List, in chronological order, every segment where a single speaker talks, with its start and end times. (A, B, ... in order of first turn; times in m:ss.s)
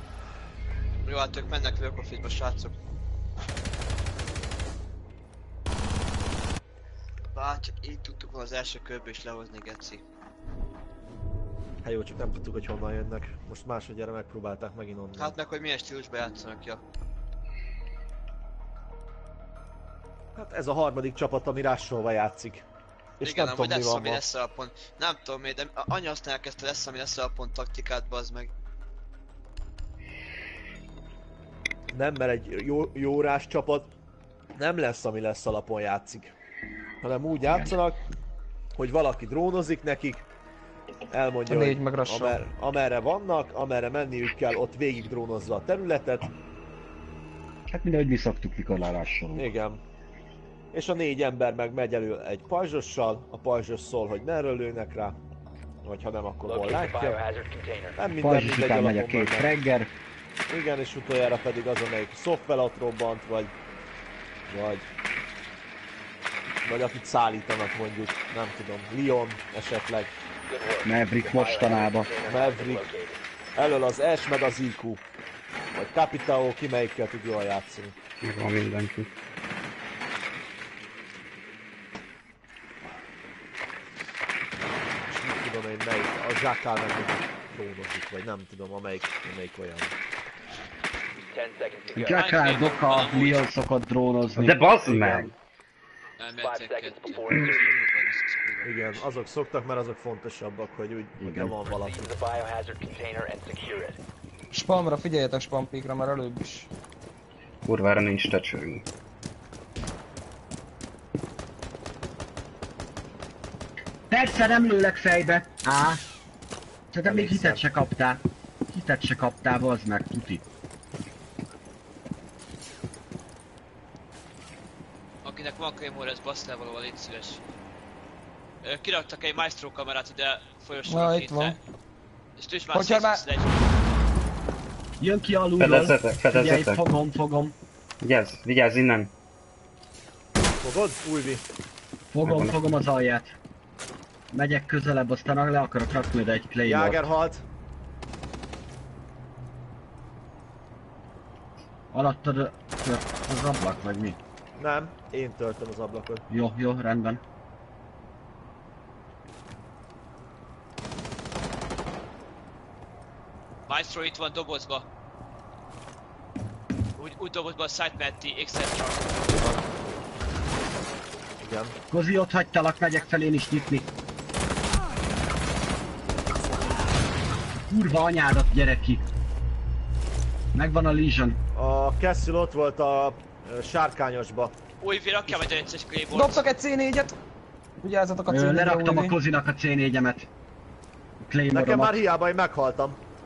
0:01.0-0:02.8 A
0:07.3-0:10.0 A
0:11.8-0:15.4 B
0:15.2-0:16.8 A
0:20.4-0:22.6 B
0:23.2-0:24.2 B
0:23.2-0:28.5 A
0:31.9-0:33.9 B
0:34.6-0:36.3 B
0:37.0-0:38.0 B
0:38.8-0:40.2 B
0:41.1-0:46.3 B
0:41.5-0:42.4 C
0:47.7-0:49.5 D
0:49.4-0:49.8 B
0:50.7-0:55.2 B
0:55.8-0:57.2 B
0:56.4-0:58.0 E
0:58.0-0:59.5 B
0:58.2-0:59.9 D
1:00.5-1:03.5 B
1:04.5-1:04.8 B
1:06.6-1:10.1 B
1:10.5-1:13.2 E
1:10.8-1:12.1 D
1:12.3-1:12.9 B
1:13.6-1:15.0 B
1:15.7-1:17.9 B
1:18.2-1:19.1 F
1:25.1-1:29.9 B
1:31.3-1:32.3 E
1:31.9-1:35.3 D
1:32.1-1:33.5 A
1:34.4-1:35.3 F
1:36.2-1:39.0 A
1:36.4-1:37.8 E
1:38.6-1:42.1 B
1:41.2-1:41.6 D
1:41.7-1:44.0 E
1:44.5-1:46.7 C
1:47.6-1:48.9 F
1:54.1-1:56.0 D
1:56.9-2:00.4 D
1:57.0-1:57.6 B
2:05.2-2:07.4 A
2:08.6-2:11.6 A
2:10.9-2:11.6 C
2:12.4-2:13.6 A
2:12.7-2:13.2 C
2:15.0-2:17.6 D
2:15.6-2:16.8 F
2:18.0-2:19.1 F
2:20.6-2:21.4 B
2:22.1-2:23.4 D
2:22.2-2:22.6 F
2:24.3-2:27.1 D
2:26.6-2:27.4 B
2:31.9-2:34.2 D
2:34.6-2:36.2 B
2:36.3-2:37.2 D
2:43.7-2:44.9 A
2:47.0-2:49.4 A
2:49.4-2:49.6 B
2:51.4-2:51.8 B
2:51.9-2:53.9 D
2:57.7-2:59.1 D
3:00.5-3:01.4 D
3:01.6-3:04.6 B
3:04.8-3:06.5 A
3:06.1-3:07.2 C
3:07.8-3:09.2 C
3:08.3-3:10.3 D
3:11.3-3:12.0 D
3:11.5-3:13.0 B